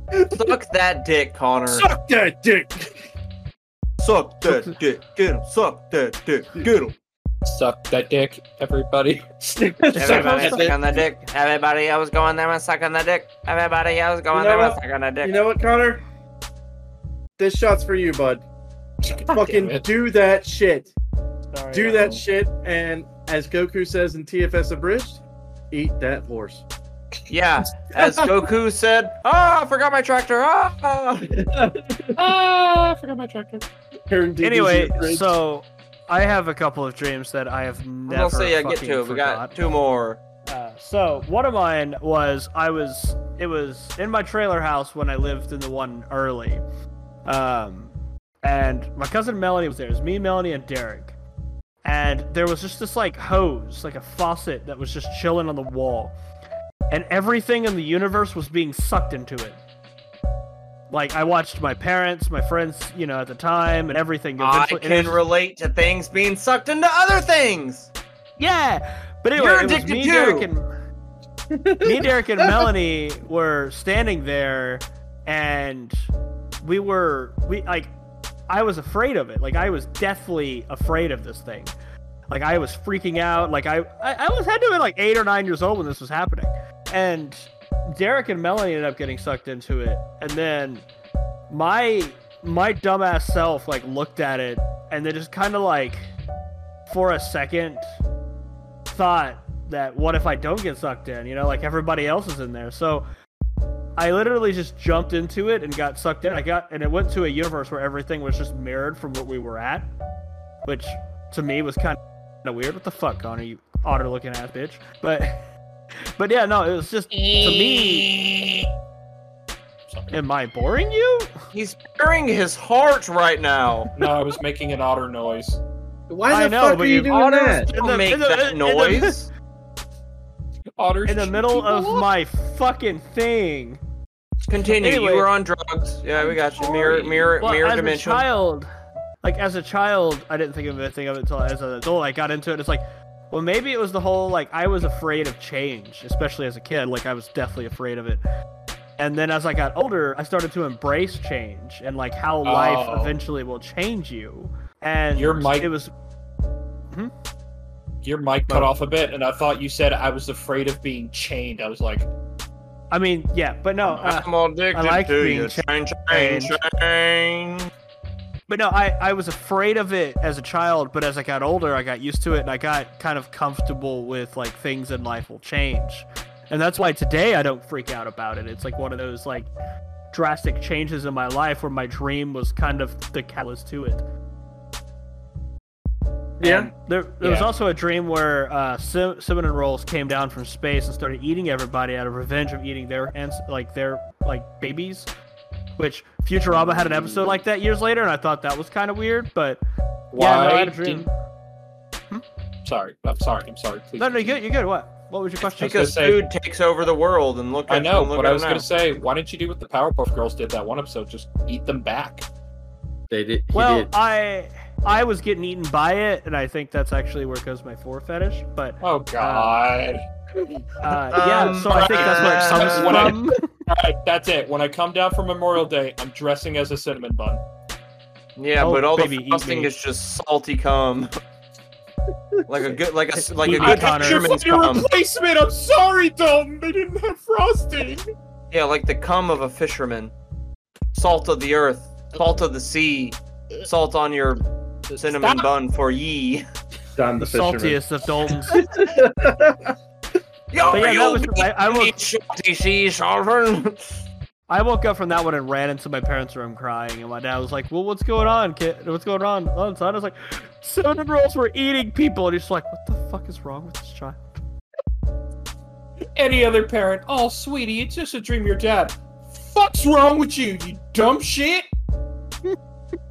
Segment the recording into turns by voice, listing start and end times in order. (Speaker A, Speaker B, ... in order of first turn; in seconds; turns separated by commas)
Speaker A: 0.1-0.6, Speaker B: 0.3-1.9, Speaker A: 1.7-3.0, Speaker B: 4.0-7.0, Speaker C: 7.5-9.3, Speaker A: 9.4-10.8, Speaker D: 10.0-15.3, Speaker B: 10.0-11.2, Speaker A: 14.3-16.0, Speaker A: 17.4-18.4, Speaker A: 19.1-20.9, Speaker C: 19.1-19.9, Speaker E: 21.5-22.2, Speaker A: 21.7-26.6, Speaker B: 27.3-31.4, Speaker A: 27.9-28.3, Speaker A: 31.3-32.3, Speaker C: 32.2-33.7, Speaker A: 34.1-35.3, Speaker E: 34.4-39.6, Speaker B: 38.1-40.2, Speaker E: 40.5-46.6, Speaker E: 47.3-51.1, Speaker E: 51.8-56.1, Speaker E: 56.9-59.6, Speaker E: 60.9-65.2, Speaker B: 64.4-67.9, Speaker E: 68.4-70.7, Speaker B: 69.4-70.5, Speaker A: 71.5-72.7, Speaker E: 71.8-76.1, Speaker E: 76.6-77.9, Speaker E: 78.5-81.7, Speaker E: 82.3-90.8, Speaker E: 91.5-96.1, Speaker E: 96.9-97.9, Speaker E: 98.9-103.0, Speaker E: 104.0-109.9, Speaker E: 110.7-115.4, Speaker E: 116.0-118.1, Speaker C: 117.1-118.6, Speaker C: 119.9-120.2, Speaker E: 120.1-121.3, Speaker B: 121.5-123.9, Speaker C: 124.0-125.6, Speaker A: 126.1-127.7, Speaker E: 126.3-127.2, Speaker B: 127.1-129.3, Speaker E: 127.7-129.1, Speaker C: 130.8-132.1, Speaker E: 131.1-133.8, Speaker B: 134.5-138.3, Speaker E: 134.8-135.3, Speaker C: 136.2-137.3, Speaker E: 137.4-138.7, Speaker E: 139.2-148.2, Speaker E: 149.0-155.9, Speaker C: 152.4-153.1, Speaker C: 155.2-155.7, Speaker C: 158.0-162.1, Speaker E: 162.9-166.5, Speaker B: 164.1-167.7, Speaker E: 168.5-179.5, Speaker E: 180.1-184.0, Speaker A: 186.4-186.7, Speaker E: 186.4-195.1, Speaker C: 187.2-187.5, Speaker E: 195.8-199.6, Speaker C: 200.1-201.1, Speaker E: 200.2-201.1, Speaker C: 202.7-204.4, Speaker E: 204.0-205.9, Speaker C: 205.6-206.3, Speaker B: 205.6-208.7, Speaker C: 207.7-212.2, Speaker A: 213.1-213.9, Speaker E: 213.5-219.6, Speaker C: 218.8-220.1, Speaker E: 220.8-223.5, Speaker B: 221.1-223.2, Speaker C: 221.7-227.4, Speaker B: 228.4-231.1, Speaker E: 228.6-229.7, Speaker B: 232.5-234.9, Speaker E: 233.2-234.3, Speaker C: 233.5-238.0, Speaker B: 238.5-240.1, Speaker B: 240.9-244.4, Speaker C: 244.9-245.5, Speaker B: 245.0-246.4, Speaker A: 246.9-247.8, Speaker E: 247.2-248.7, Speaker A: 248.5-249.7, Speaker B: 250.5-253.7, Speaker E: 250.7-251.9, Speaker E: 254.5-264.4, Speaker C: 266.2-271.7